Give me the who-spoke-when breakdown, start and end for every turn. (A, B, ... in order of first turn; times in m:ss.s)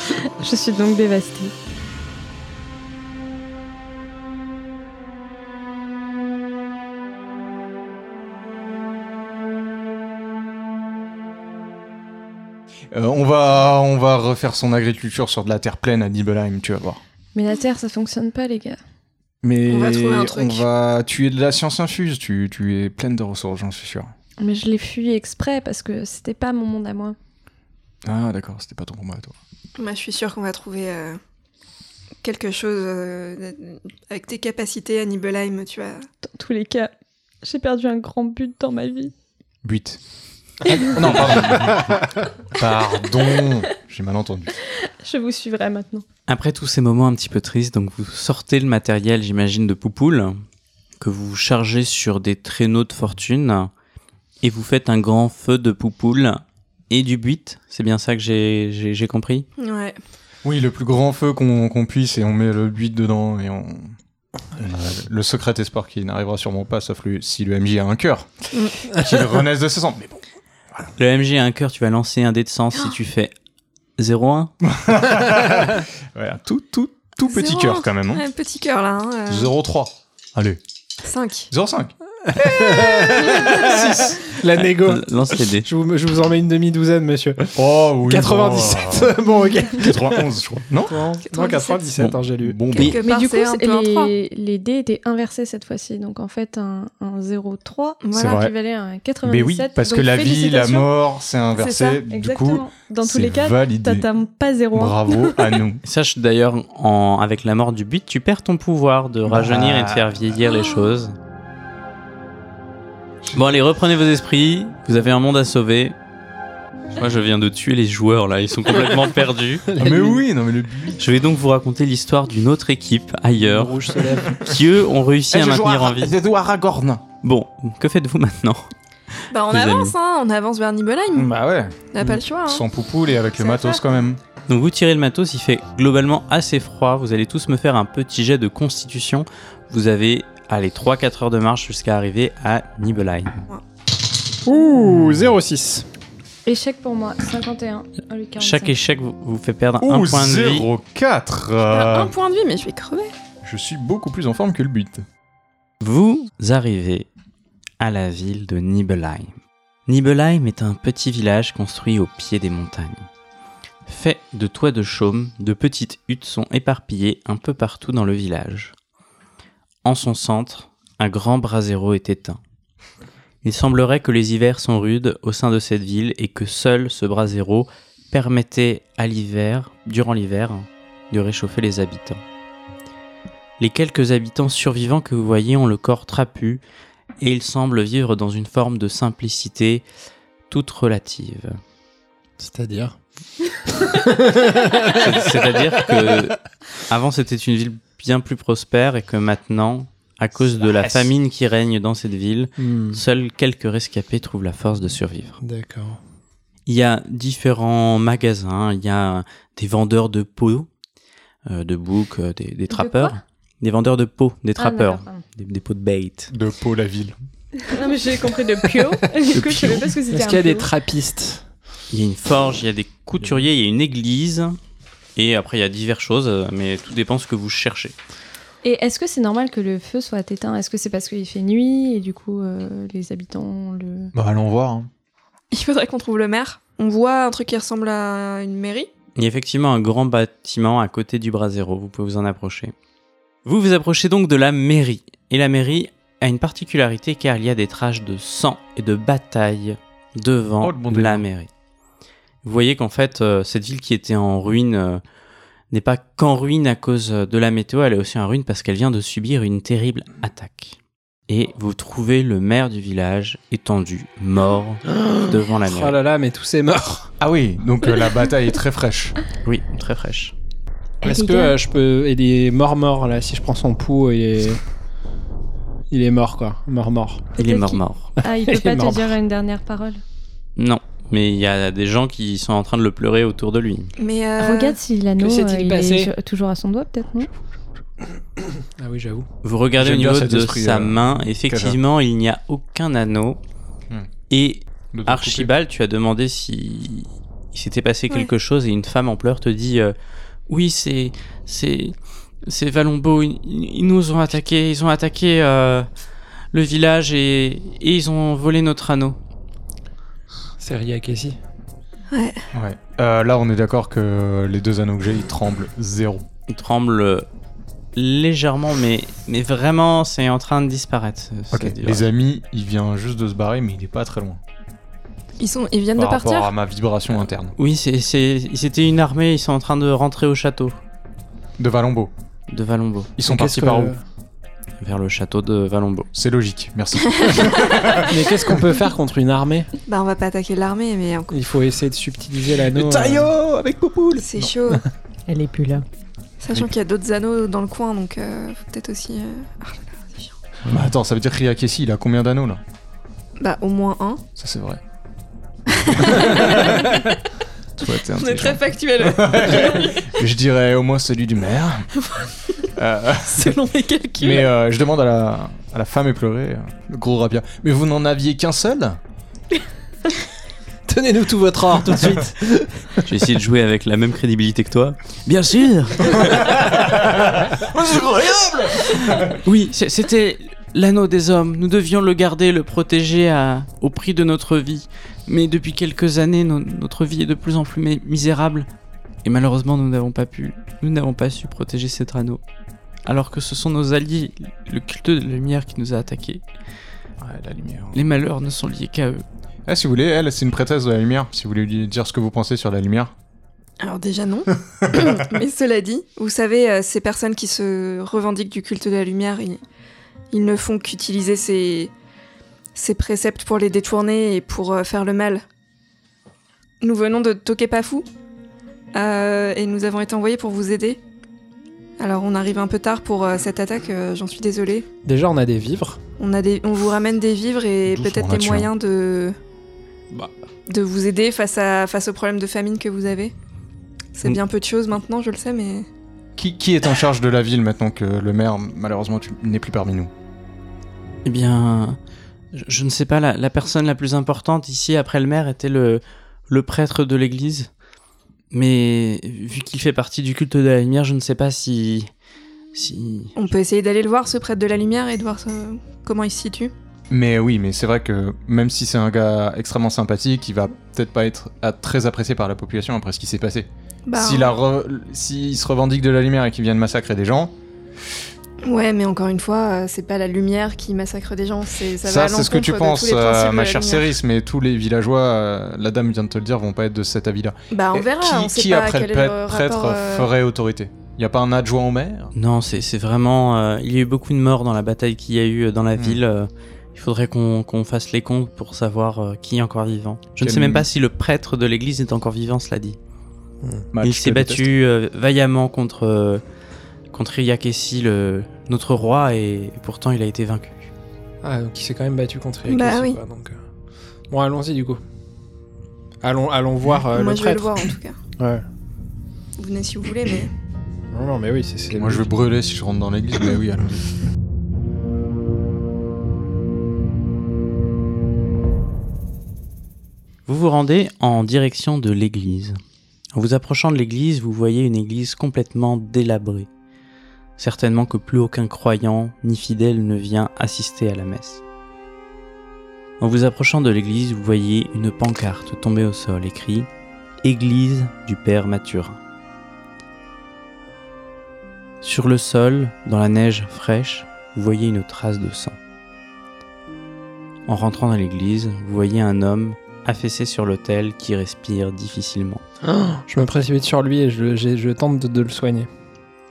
0:00.1-0:01.5 A
0:12.9-0:17.0 B
0:17.3-0:18.8 A
0:19.4-0:24.1 B
0:19.7-0:20.6 C
0:24.4-0:27.2 A
0:28.0-0:29.3 B
0:29.8-0:31.2 C
0:32.2-0:36.1 C
0:36.2-0:36.9 A
0:37.4-0:39.1 A
0:39.6-0:40.0 B
0:40.6-0:41.4 A
0:40.8-0:44.5 B
0:44.8-0:46.0 A
0:46.3-0:50.4 D
0:51.0-0:53.7 D
0:54.4-0:59.5 D
0:59.6-1:00.0 C
1:00.4-1:04.0 B
1:04.6-1:10.2 B
1:08.5-1:08.8 C
1:11.0-1:13.3 D
1:14.0-1:14.5 D
1:14.6-1:18.2 B
1:17.3-1:19.5 C
1:19.3-1:20.6 B
1:21.0-1:21.5 C
1:21.5-1:21.9 B
1:22.2-1:30.3 E
1:23.0-1:23.6 C
1:23.4-1:24.4 B
1:24.5-1:25.7 D
1:27.6-1:29.1 B
1:29.8-1:31.0 B
1:30.9-1:32.6 E
1:31.3-1:31.9 C
1:32.4-1:33.0 B
1:32.7-1:34.1 C
1:32.7-1:33.0 D
1:33.0-1:40.9 A
1:38.0-1:38.4 C
1:38.1-1:38.5 B
1:39.2-1:44.1 B
1:41.6-1:42.0 C
1:42.1-1:45.6 A
1:44.7-1:45.8 B
1:45.8-1:51.1 D
1:49.2-1:50.3 B
1:50.4-1:51.0 C
1:53.3-1:55.9 D
1:57.0-1:59.6 D
1:59.7-2:00.2 E
1:59.8-2:01.0 B
2:01.0-2:06.1 D
2:03.4-2:04.5 E
2:05.3-2:07.0 B
2:07.2-2:08.7 D
2:09.3-2:11.3 C
2:09.5-2:09.9 D
2:11.1-2:14.2 B
2:11.9-2:12.6 C
2:13.5-2:13.8 C
2:14.5-2:23.4 D
2:24.4-2:25.9 E
2:26.4-2:28.8 A
2:28.4-2:30.7 D
2:29.8-2:32.1 B
2:31.7-2:33.1 C
2:33.4-2:35.0 B
2:35.8-2:37.1 D
2:37.8-2:39.4 D
2:39.9-2:43.1 D
2:43.9-2:48.7 D
2:49.8-2:52.4 D
2:53.4-3:02.2 D
3:03.6-3:06.6 D
3:07.2-3:09.8 D
3:10.5-3:11.6 D
3:12.4-3:13.0 E
3:13.6-3:16.2 E
3:14.8-3:25.4 D
3:22.6-3:23.0 E
3:25.4-3:26.0 E
3:26.7-3:30.7 D
3:31.5-3:36.3 D
3:32.7-3:33.2 A
3:34.6-3:35.2 A
3:36.3-3:37.2 B
3:37.6-3:40.7 A
3:39.3-3:41.4 E
3:41.9-3:44.6 D
3:45.2-3:47.9 D
3:48.6-3:54.1 A
3:54.1-3:54.9 B
3:55.5-3:58.9 C
3:59.2-4:02.7 D
4:03.4-4:11.5 D
4:10.6-4:11.2 B
4:12.4-4:15.0 D
4:15.7-4:26.0 D
4:24.9-4:27.1 E
4:27.2-4:29.2 B
4:29.4-4:30.3 D
4:31.0-4:34.6 E
4:31.0-4:31.5 A
4:35.9-4:37.3 E
4:37.4-4:38.1 D
4:37.4-4:40.0 A
4:38.2-4:39.1 E
4:40.6-4:43.9 D
4:44.0-4:44.8 C
4:44.4-4:47.3 A
4:45.2-4:46.1 E
4:48.4-4:49.3 E
4:49.4-4:53.4 D
4:49.8-4:51.8 B
4:54.3-4:59.9 D
4:54.9-4:55.5 B
5:00.5-5:05.9 D
5:06.5-5:09.2 D
5:10.6-5:11.4 E
5:12.1-5:12.4 C
5:12.5-5:16.2 B
5:16.5-5:17.3 D
5:17.9-5:22.1 D
5:21.5-5:24.4 B
5:25.4-5:26.5 C
5:26.0-5:27.5 B
5:27.6-5:30.8 D
5:31.6-5:32.1 B
5:32.5-5:33.2 D
5:33.2-5:33.9 B
5:33.2-5:34.0 E
5:34.8-5:36.1 D
5:36.1-5:38.4 B
5:37.1-5:38.0 C
5:38.1-5:39.7 E
5:39.9-5:41.4 C
5:41.3-5:43.3 E
5:42.7-5:44.5 B
5:44.2-5:44.8 C
5:45.3-5:45.8 A
5:46.4-5:50.3 C
5:50.6-5:52.6 B
5:53.4-5:54.2 C
5:54.4-5:54.8 B
5:55.7-5:57.2 C
5:55.9-5:56.9 B
5:57.8-6:01.9 B
5:57.8-6:00.2 C
6:02.0-6:02.7 C
6:02.7-6:03.6 B
6:03.2-6:04.5 C
6:04.2-6:09.0 B
6:10.9-6:13.0 E
6:13.0-6:16.7 D
6:16.2-6:19.4 B
6:19.1-6:28.7 D
6:29.2-6:32.4 D
6:33.0-6:36.4 D
6:37.2-6:38.0 B
6:37.9-6:39.2 D
6:39.7-6:43.1 B
6:43.8-6:49.6 C
6:50.3-6:51.9 C
6:52.7-6:55.4 C
6:56.8-6:58.1 C
6:58.9-7:01.0 C
7:02.0-7:04.9 C
7:05.0-7:06.0 E
7:06.2-7:09.4 C
7:07.9-7:08.7 B
7:10.7-7:13.3 C
7:14.2-7:15.9 C
7:16.4-7:20.1 B
7:21.2-7:22.0 D
7:22.5-7:27.7 D
7:28.5-7:32.1 D
7:32.7-7:33.3 D
7:33.4-7:36.7 C
7:37.1-7:47.5 B
7:44.0-7:44.6 C
7:48.6-7:54.1 C
7:52.0-8:02.3 B
7:57.7-8:00.3 C
8:02.3-8:13.0 D
8:10.4-8:10.8 B
8:13.9-8:14.7 B
8:14.0-8:16.4 D
8:17.1-8:20.9 D
8:21.4-8:23.6 E
8:22.7-8:23.2 C
8:24.3-8:25.0 E
8:26.2-8:28.6 E
8:27.1-8:28.2 C
8:29.6-8:30.5 C
8:31.1-8:32.3 E
8:31.9-8:34.1 B
8:40.5-8:42.8 D
8:43.3-8:46.7 D
8:47.6-8:51.6 D
8:53.2-8:56.9 D
8:57.4-8:59.2 D
9:02.0-9:05.8 D
9:07.7-9:12.6 D
9:12.8-9:15.9 E